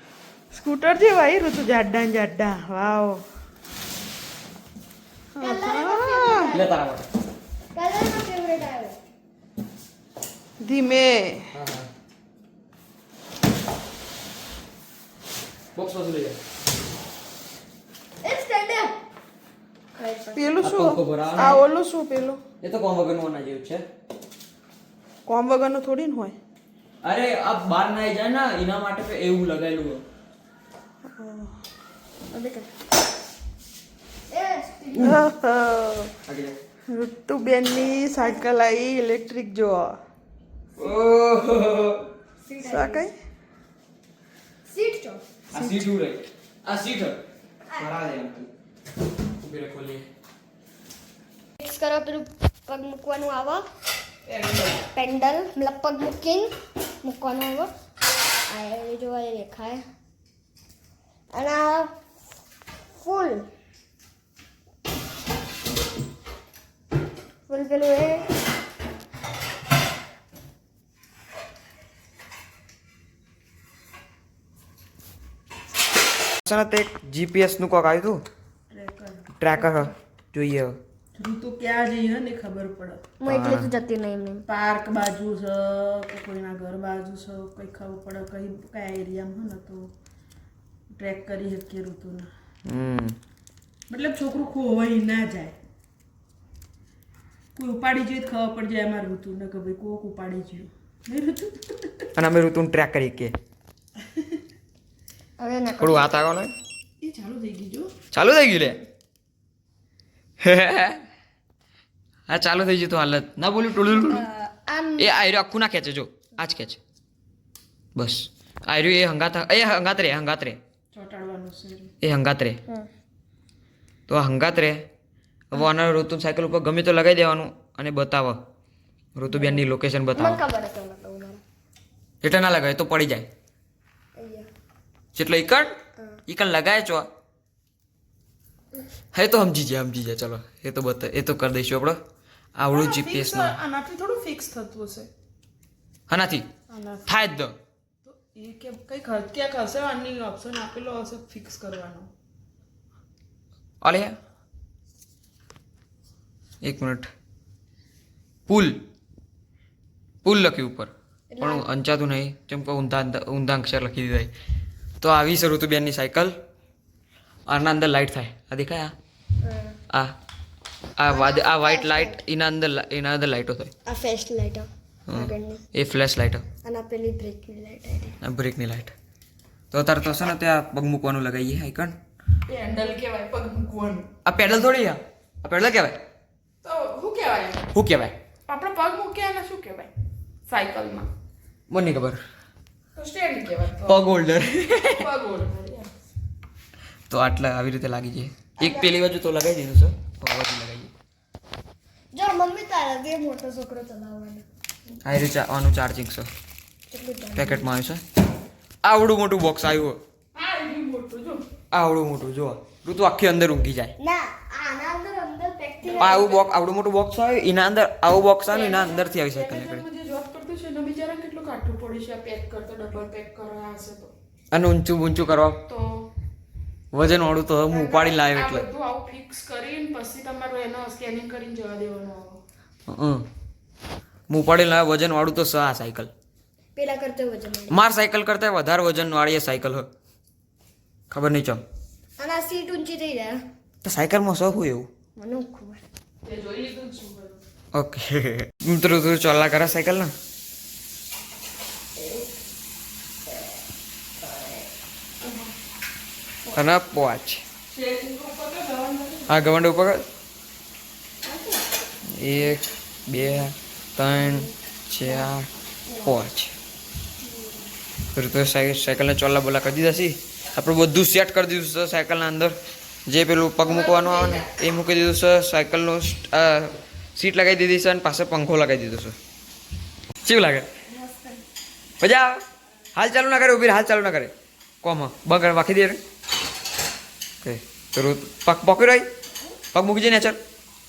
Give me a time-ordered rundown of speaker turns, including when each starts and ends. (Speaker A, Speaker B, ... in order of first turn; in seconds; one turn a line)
Speaker A: 0.5-3.2
Speaker A: 5.4-6.5
Speaker B: 5.4-6.7
Speaker C: 6.5-7.0
Speaker B: 7.7-9.0
Speaker A: 10.6-11.5
Speaker C: 11.5-11.9
Speaker C: 15.8-16.4
Speaker B: 18.2-18.9
Speaker B: 19.9-20.6
Speaker A: 20.3-22.4
Speaker C: 20.6-21.6
Speaker C: 22.6-23.8
Speaker A: 25.2-26.4
Speaker C: 27.0-30.0
Speaker A: 31.1-31.6
Speaker B: 32.3-32.6
Speaker B: 34.3-35.3
Speaker A: 35.0-36.1
Speaker C: 36.2-36.6
Speaker A: 36.9-40.0
Speaker B: 38.1-38.4
Speaker C: 40.8-42.1
Speaker B: 42.4-43.1
Speaker A: 42.6-43.1
Speaker B: 44.7-45.4
Speaker C: 45.5-47.2
Speaker C: 47.8-48.5
Speaker C: 49.4-50.1
Speaker B: 51.6-53.6
Speaker A: 54.3-54.8
Speaker B: 54.8-56.5
Speaker B: 57.0-57.7
Speaker B: 58.5-59.8
Speaker B: 61.3-61.9
Speaker B: 63.0-63.5
Speaker B: 67.5-68.3
Speaker C: 76.4-78.2
Speaker A: 78.7-79.2
Speaker C: 79.4-80.8
Speaker B: 79.6-79.9
Speaker A: 81.2-83.1
Speaker B: 83.2-84.5
Speaker C: 83.2-83.7
Speaker A: 84.5-89.9
Speaker A: 90.9-92.3
Speaker C: 92.7-93.2
Speaker A: 93.9-95.5
Speaker A: 97.5-102.1
Speaker C: 102.2-103.3
Speaker B: 105.4-106.2
Speaker C: 105.8-106.5
Speaker A: 107.0-107.9
Speaker C: 108.1-108.8
Speaker C: 110.4-111.0
Speaker C: 112.3-114.2
Speaker B: 113.9-115.1
Speaker C: 115.0-116.8
Speaker C: 117.9-120.6
Speaker A: 120.9-121.9
Speaker C: 122.0-122.6
Speaker C: 124.1-124.8
Speaker C: 125.5-128.4
Speaker C: 129.2-130.4
Speaker A: 129.3-129.6
Speaker B: 130.2-131.4
Speaker C: 132.2-133.3
Speaker B: 134.2-134.5
Speaker C: 135.2-135.7
Speaker B: 136.0-136.2
Speaker C: 136.3-137.1
Speaker C: 139.1-142.0
Speaker C: 142.6-143.6
Speaker A: 142.7-145.1
Speaker C: 146.1-146.4
Speaker A: 146.7-147.1
Speaker C: 147.1-147.5
Speaker A: 148.1-152.1
Speaker C: 153.8-154.1
Speaker C: 156.6-157.1
Speaker C: 158.5-158.8
Speaker C: 160.2-164.3
Speaker B: 161.3-161.7
Speaker C: 165.0-166.3
Speaker C: 167.5-168.9
Speaker B: 169.4-169.8
Speaker C: 171.0-173.7
Speaker B: 171.1-172.2
Speaker B: 173.8-175.6
Speaker C: 175.1-176.4
Speaker B: 176.6-178.2
Speaker C: 178.2-178.9
Speaker C: 179.7-182.0
Speaker A: 182.5-184.1
Speaker C: 184.2-186.0
Speaker A: 186.6-187.7
Speaker C: 187.7-188.2
Speaker A: 188.5-189.9
Speaker A: 190.5-191.1
Speaker C: 191.7-192.2
Speaker A: 192.9-194.1
Speaker C: 193.8-195.1
Speaker A: 194.9-195.9
Speaker C: 197.1-200.9
Speaker B: 202.1-204.4
Speaker C: 205.0-206.3
Speaker B: 206.9-207.7
Speaker C: 207.3-208.0
Speaker C: 208.8-210.0
Speaker A: 210.3-211.5
Speaker C: 211.7-213.9
Speaker B: 214.0-216.4
Speaker A: 215.8-216.2
Speaker C: 216.0-219.8
Speaker B: 218.7-219.0
Speaker A: 219.3-224.1
Speaker C: 224.5-225.6
Speaker C: 226.9-228.7
Speaker A: 227.7-232.4
Speaker C: 232.9-233.2
Speaker C: 234.3-236.1
Speaker B: 236.8-237.8
Speaker C: 237.7-239.9
Speaker C: 241.1-241.6
Speaker B: 242.2-243.4
Speaker C: 243.8-244.9
Speaker B: 245.2-245.8
Speaker A: 246.2-247.4
Speaker C: 247.7-250.1
Speaker B: 252.0-252.2
Speaker A: 255.2-255.5
Speaker C: 256.5-257.4
Speaker A: 257.7-259.5
Speaker C: 259.3-260.1
Speaker A: 261.2-261.6
Speaker C: 262.2-265.5
Speaker C: 266.0-266.6
Speaker B: 267.2-267.6
Speaker C: 268.1-279.2
Speaker B: 274.0-274.3
Speaker C: 280.2-280.7
Speaker B: 280.9-281.4
Speaker C: 282.0-282.4
Speaker C: 282.9-286.0
Speaker C: 287.4-289.1
Speaker C: 289.7-290.4